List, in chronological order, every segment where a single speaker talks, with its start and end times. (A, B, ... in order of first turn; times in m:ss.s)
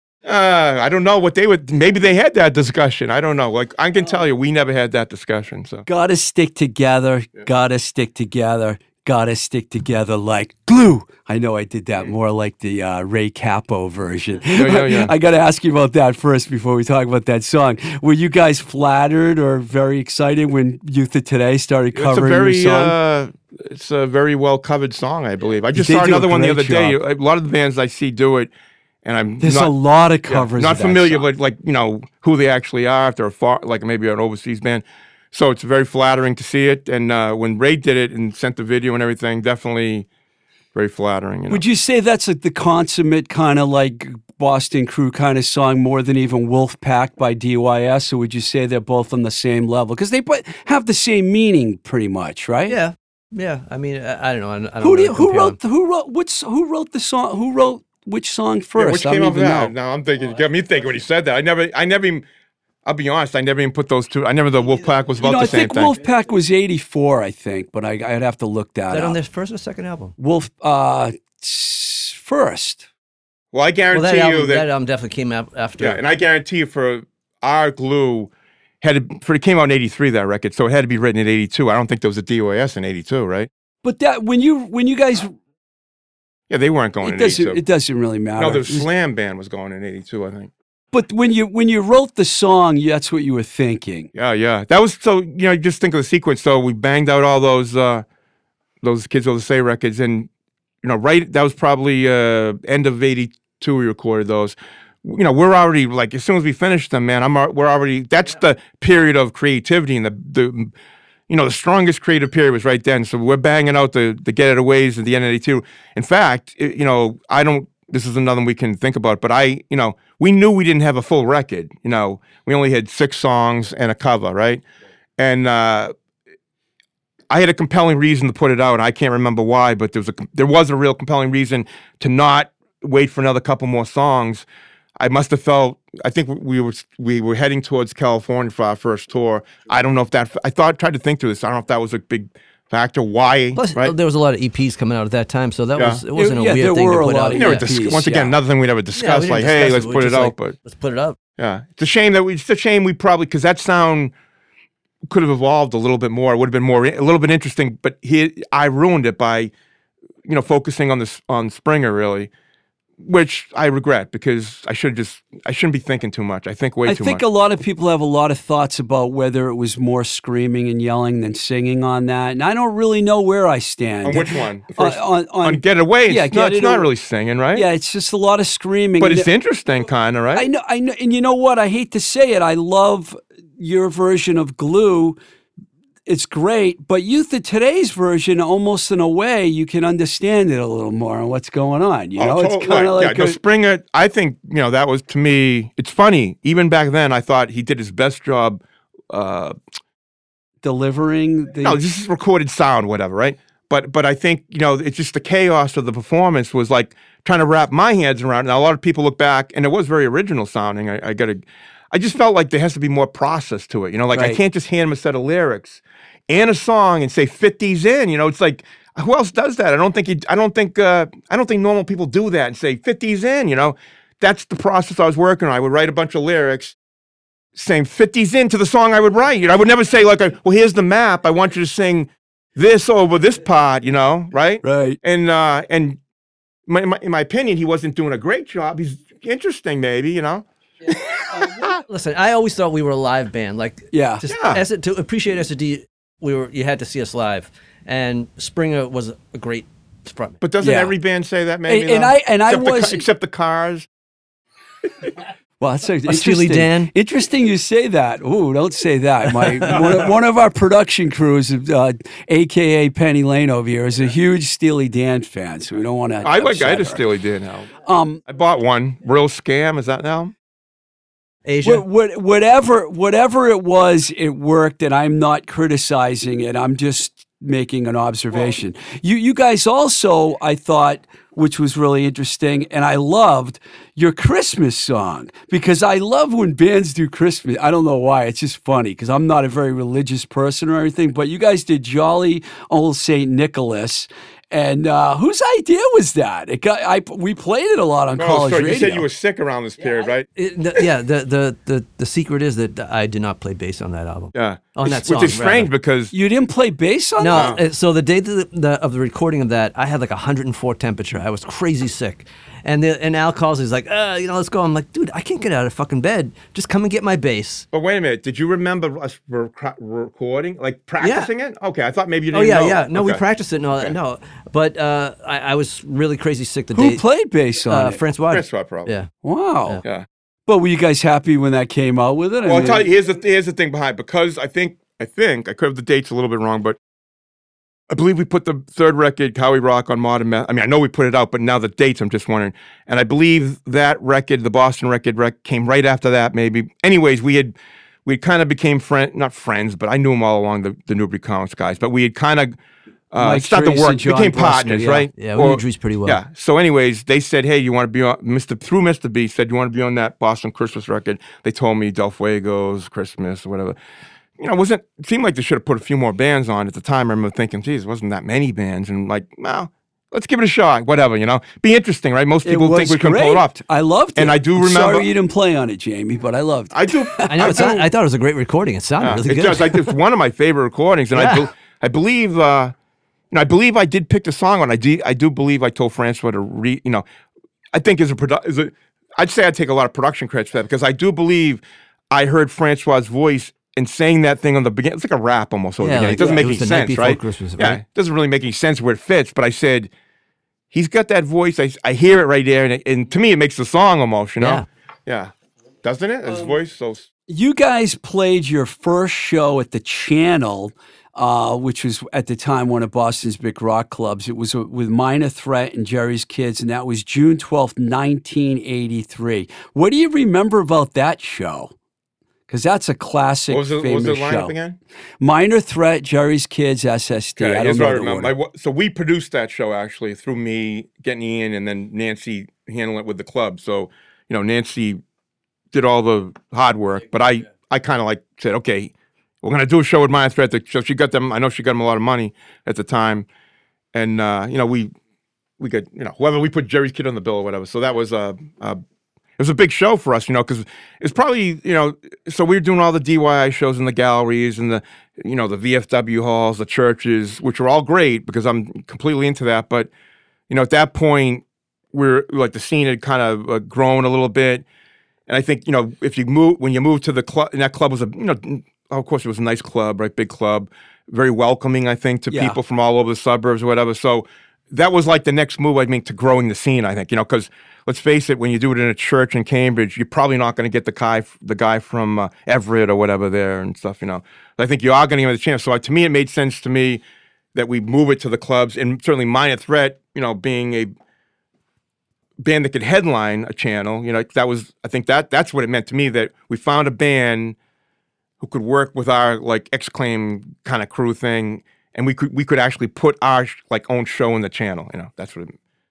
0:00.2-0:05.8 A
0:05.8-0:22.9 B
0:14.5-0:15.1 A
0:21.9-0:28.5 A
0:25.7-0:27.0 B
0:29.0-0:29.7 A
0:29.4-0:31.2 B
0:30.3-0:40.1 A
0:40.7-0:41.6 A
0:41.5-0:52.8 B
0:52.7-0:55.6 C
0:54.8-0:59.7 B
0:58.8-1:02.2 A
1:02.8-1:05.9 A
1:05.2-1:09.2 B
1:08.9-1:10.2 C
1:10.2-1:12.8 B
1:13.5-1:14.6 A
1:13.9-1:16.0 C
1:15.8-1:23.5 A
1:23.8-1:25.3 B
1:26.5-1:27.6 A
1:27.0-1:28.9 B
1:28.4-1:30.5 A
1:30.9-1:34.1 B
1:34.1-1:38.0 A
1:38.8-1:40.3 A
1:40.8-1:50.7 A
1:51.3-2:04.6 A
2:05.2-2:05.9 A
2:07.3-2:14.4 A
2:15.0-2:23.9 A
2:23.5-2:27.7 C
2:25.8-2:26.0 A
2:26.1-2:28.3 B
2:27.3-2:30.6 A
2:28.9-2:31.2 C
2:31.4-2:34.1 A
2:35.1-2:39.5 A
2:40.2-2:42.3 A
2:43.0-2:47.2 A
2:46.8-2:56.9 B
2:54.0-2:57.7 A
2:57.5-2:59.3 B
2:59.0-3:00.5 A
3:00.3-3:05.2 B
3:06.0-3:13.4 B
3:12.2-3:19.6 A
3:20.6-3:21.8 B
3:21.6-3:46.8 A
3:34.1-3:34.4 B
3:47.5-3:56.0 A
3:54.6-3:55.0 B
3:56.7-4:01.8 A
4:01.8-4:10.9 C
4:03.9-4:04.2 B
4:04.3-4:04.6 A
4:10.4-4:13.9 A
4:11.7-4:13.0 B
4:15.6-4:27.0 B
4:16.1-4:16.9 C
4:26.2-4:27.7 A
4:27.8-4:28.2 B
4:28.3-4:30.3 A
4:31.4-4:31.8 C
4:31.6-4:59.0 B
4:58.2-5:00.2 A
5:00.4-5:05.7 C
5:04.3-5:06.1 A
5:06.1-5:07.6 B
5:07.2-5:17.7 C
5:07.3-5:07.6 A
5:17.7-5:23.2 A
5:21.0-5:21.3 C
5:22.3-5:27.0 C
5:26.7-5:28.0 B
5:27.7-5:29.1 C
5:28.3-5:28.9 A
5:29.2-5:29.8 B
5:30.5-5:32.8 B
5:32.4-5:36.8 A
5:37.9-5:47.5 A
5:48.0-5:52.6 A
5:53.1-6:03.8 A
5:53.2-5:55.1 B
5:55.2-5:56.2 C
6:04.4-6:13.5 A
6:12.4-6:17.7 B
6:14.2-6:15.1 A
6:16.7-6:17.8 A
6:17.3-6:19.9 C
6:19.0-6:22.7 A
6:21.1-6:21.5 C
6:23.3-6:27.0 A
6:27.7-6:39.9 A
6:35.8-6:37.8 C
6:40.7-6:45.3 A
6:44.4-6:44.6 C
6:45.8-6:47.1 A
6:47.3-7:01.7 B
7:02.5-7:04.5 B
7:03.5-7:04.8 A
7:05.2-7:08.3 B
7:07.4-7:15.0 A
7:15.7-7:18.9 A
7:19.4-7:23.2 A
7:23.9-7:24.9 A
7:25.6-7:28.8 A
7:29.4-7:39.9 A
7:40.5-7:44.6 A
7:45.3-8:07.0 A
7:52.3-7:52.6 B
8:07.5-8:10.9 A
8:12.4-8:17.6 A
8:18.4-8:25.5 A